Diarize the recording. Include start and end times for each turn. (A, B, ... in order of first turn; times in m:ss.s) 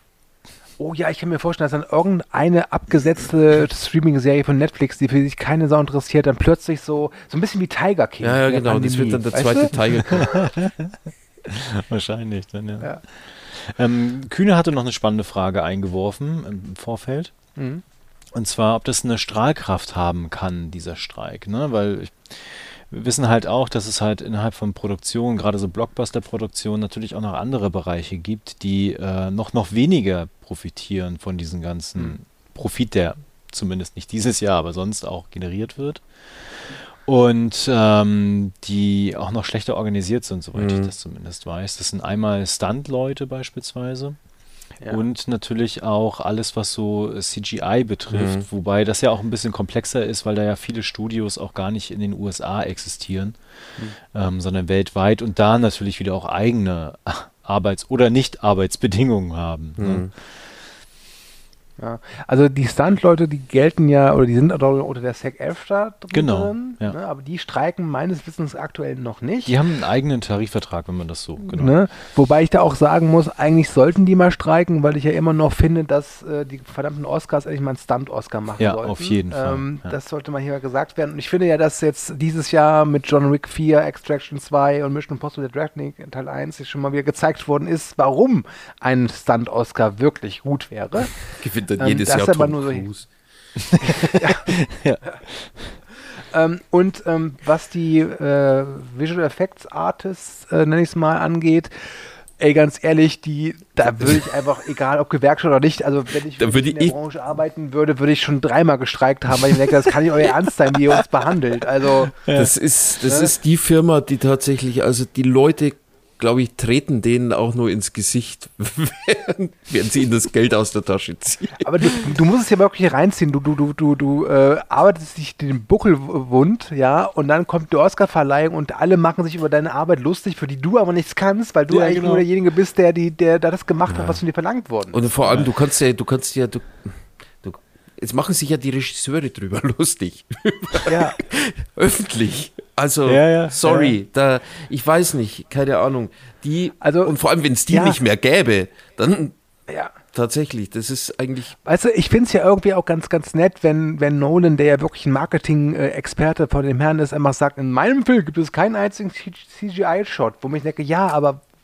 0:00.8-0:09.8 A
0:08.2-0:10.4 B
0:10.2-0:17.3 C
0:17.6-0:17.8 A
0:18.3-0:36.0 C
0:37.1-0:44.2 C
0:40.6-0:40.9 B
0:44.9-0:53.4 C
0:48.1-0:48.4 B
0:54.1-1:00.1 C
0:59.8-1:00.1 B
1:01.8-1:09.6 A
1:06.1-1:07.0 C
1:09.4-1:11.7 C
1:11.4-1:32.9 A
1:18.6-1:19.9 C
1:31.4-1:33.1 B
1:33.6-1:35.8 C
1:33.9-1:34.5 A
1:36.3-1:41.7 A
1:42.4-1:52.2 A
1:46.4-1:47.0 B
1:52.3-2:02.0 B
1:53.1-1:53.3 A
2:01.6-2:15.1 A
2:11.7-2:12.2 C
2:13.9-2:14.2 B
2:14.9-2:29.4 B
2:20.9-2:21.2 A
2:23.1-2:23.9 C
2:26.8-2:27.2 A
2:27.7-2:28.0 A
2:29.7-2:30.0 A
2:30.1-2:31.6 B
2:31.7-2:41.4 A